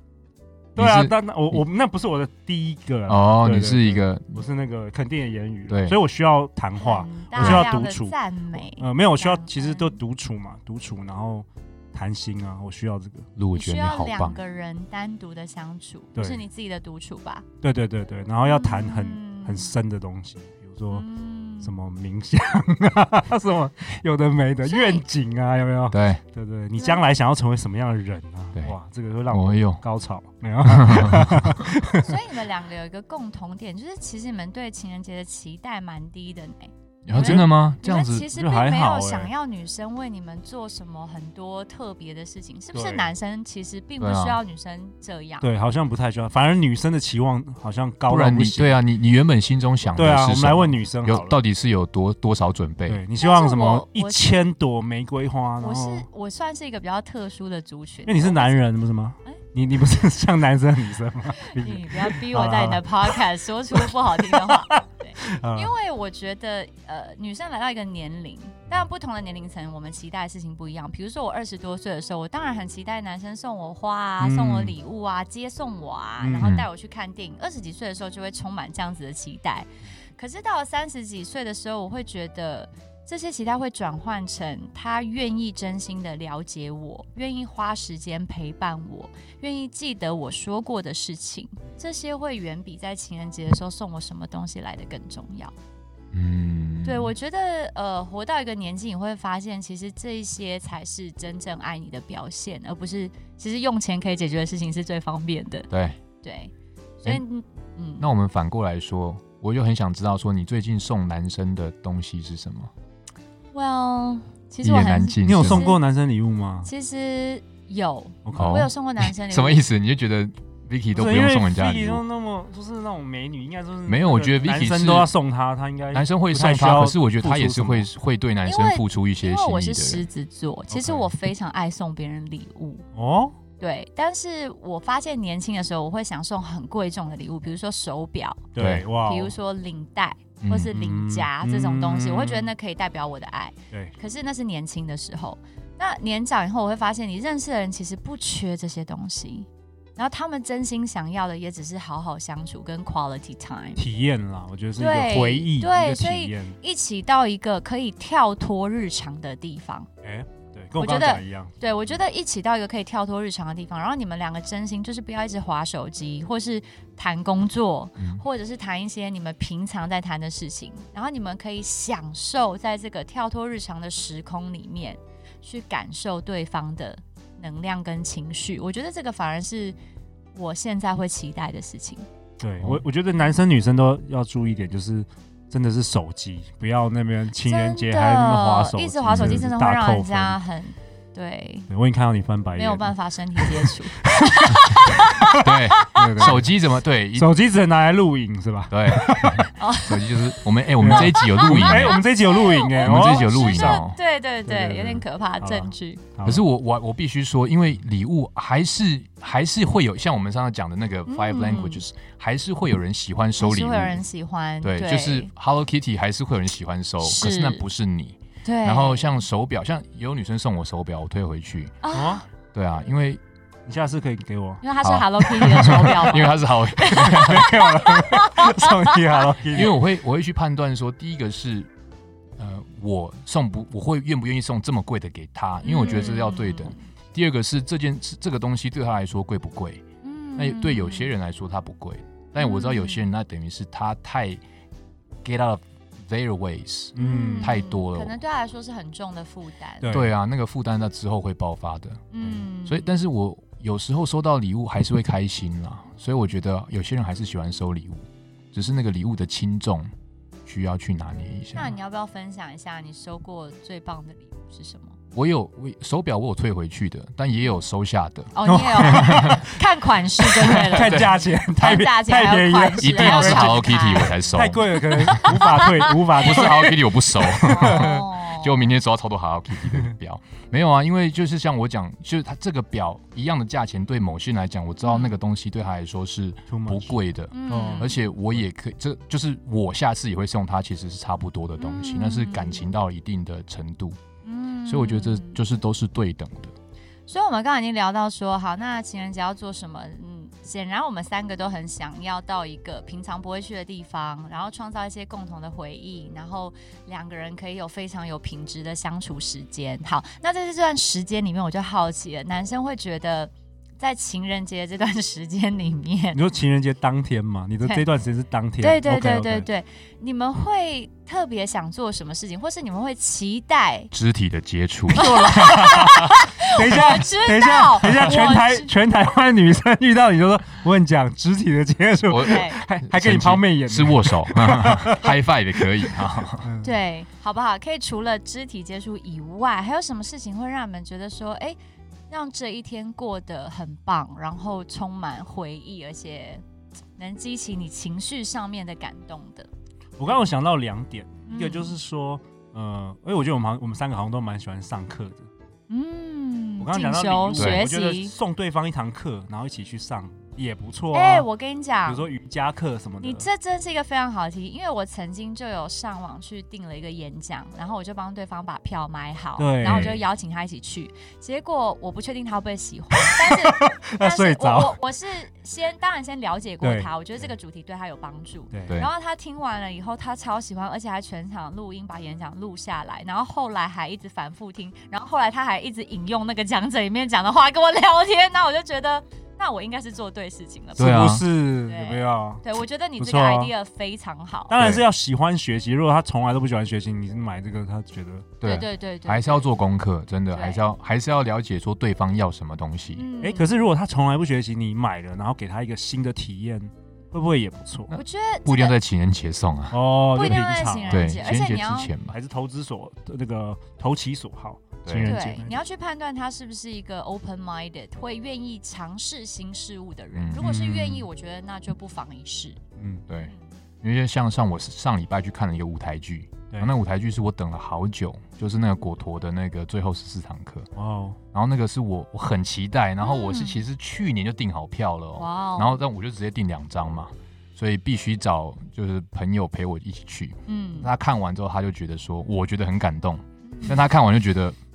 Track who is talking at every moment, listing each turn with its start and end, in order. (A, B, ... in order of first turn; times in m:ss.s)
0:00.8-0:13.3 A
0:00.8-0:01.6 B
0:03.1-0:04.4 B
0:05.7-0:06.0 B
0:06.8-0:10.0 C
0:07.4-0:07.7 B
0:13.4-0:14.4 B
0:13.5-0:17.4 C
0:16.1-0:16.4 A
0:17.6-0:21.1 A
0:18.4-0:19.7 C
0:20.9-0:21.7 C
0:21.6-0:32.1 A
0:24.6-0:25.0 C
0:25.9-0:26.2 B
0:26.8-0:27.0 C
0:29.3-0:29.8 B
0:30.8-0:31.5 B
0:32.0-0:45.5 C
0:37.1-0:38.3 B
0:37.1-0:37.5 A
0:38.3-0:39.3 A
0:42.7-0:43.1 A
0:44.0-0:44.4 B
0:45.4-0:48.8 A
0:48.1-0:53.0 B
0:49.9-0:51.4 A
0:52.9-0:56.1 A
0:53.2-0:54.4 C
0:55.6-0:58.6 C
0:58.1-1:05.7 A
1:01.4-1:35.5 C
1:14.2-1:14.8 A
1:16.2-1:16.6 A
1:16.4-1:16.7 B
1:36.1-1:37.1 B
1:36.8-1:45.7 C
1:45.7-1:46.0 B
1:46.2-1:48.1 C
1:48.0-1:52.7 B
1:53.5-1:55.8 C
1:54.6-1:55.7 B
1:55.2-1:56.7 A
1:56.6-1:59.6 C
1:58.2-1:58.6 A
1:58.4-2:02.0 B
2:00.9-2:07.9 A
2:03.9-2:05.1 B
2:05.9-2:10.1 B
2:08.4-2:12.8 C
2:10.7-2:11.1 A
2:12.9-2:13.4 A
2:13.6-2:18.5 C
2:18.6-2:19.4 A
2:18.6-2:18.9 B
2:19.0-2:33.8 C
2:20.4-2:20.7 B
2:20.7-2:22.5 A
2:33.8-2:36.6 A
2:34.8-2:39.9 C
2:40.0-2:42.0 A
2:40.8-2:59.8 C
3:00.3-3:02.1 C
3:02.4-3:10.4 A
3:07.3-3:11.7 C
3:09.1-3:09.4 B
3:11.7-3:16.5 A
3:12.6-3:16.1 C
3:15.4-3:17.3 B
3:17.1-3:19.5 A
3:18.7-3:22.0 B
3:19.6-3:20.1 C
3:20.8-3:23.8 A
3:20.9-3:26.0 C
3:22.8-3:24.0 B
3:24.5-3:26.4 A
3:26.2-3:34.0 B
3:31.1-3:31.8 C
3:33.4-3:35.3 C
3:34.6-3:41.8 B
3:37.0-3:37.6 C
3:38.4-3:39.2 C
3:41.8-3:42.2 C
3:41.9-3:42.2 A
3:42.5-3:43.2 B
3:43.6-3:44.7 A
3:44.6-3:48.6 C
3:44.8-3:47.5 B
3:45.2-3:46.0 A
3:46.9-3:49.7 A
3:49.5-3:51.7 B
3:52.4-3:59.8 B
3:55.6-3:56.8 C
4:00.0-4:01.1 C
4:00.4-4:04.4 B
4:02.4-4:03.0 C
4:05.2-4:08.2 B
4:07.0-4:07.6 A
4:07.0-4:10.0 C
4:09.8-4:10.1 A
4:09.9-4:19.9 B
4:12.1-4:12.9 C
4:20.4-4:21.7 B
4:21.6-4:25.0 C
4:25.1-4:28.3 B
4:28.3-4:34.1 C
4:28.4-4:29.6 A
4:28.9-4:29.4 B
4:30.3-4:37.9 A
4:30.7-4:31.2 B
4:32.8-4:35.4 B
4:34.7-4:35.8 C
4:36.2-4:54.0 B
4:37.5-4:38.7 C
4:44.8-4:45.2 C
4:46.5-4:47.0 A
4:47.3-4:48.0 C
4:47.5-4:47.9 A
4:51.6-4:52.6 C
4:54.2-4:55.4 C
4:54.6-4:56.5 B
4:57.1-5:16.2 C
5:16.1-5:19.5 A
5:18.6-5:23.9 C
5:23.9-5:25.0 B
5:24.9-5:28.7 C
5:24.9-5:36.8 A
5:32.1-5:36.5 B
5:32.2-5:32.6 C
5:36.6-5:41.6 C
5:42.1-5:46.4 C
5:47.0-5:49.5 C
5:50.0-5:55.3 A
5:51.3-5:51.8 C
5:55.7-5:58.1 C
5:56.6-6:01.3 A
5:57.4-5:57.6 B
6:00.9-6:02.1 C
6:01.9-6:03.3 A
6:03.0-6:34.6 C
6:09.4-6:10.0 A
6:09.6-6:10.0 B
6:13.0-6:14.8 A
6:16.6-6:16.9 A
6:30.8-6:32.4 A
6:30.8-6:31.2 B
6:33.0-6:33.5 A
6:34.5-6:38.4 A
6:34.6-6:34.9 B
6:38.4-6:43.1 B
6:38.4-6:39.5 C
6:40.3-6:40.6 C
6:42.9-6:43.5 C
6:43.2-6:47.9 A
6:47.9-6:49.8 B
6:47.9-6:48.8 C
6:49.7-6:51.5 A
6:50.1-6:51.9 C
6:50.3-6:52.2 B
6:52.1-6:55.6 A
6:54.8-6:55.2 B
6:55.0-7:02.6 C
7:00.1-7:01.0 B
7:02.8-7:03.0 A
7:03.1-7:10.7 B
7:10.8-7:11.2 A
7:11.3-7:24.6 B
7:13.0-7:13.6 C
7:15.2-7:15.8 C
7:20.5-7:20.9 C
7:23.5-7:23.8 C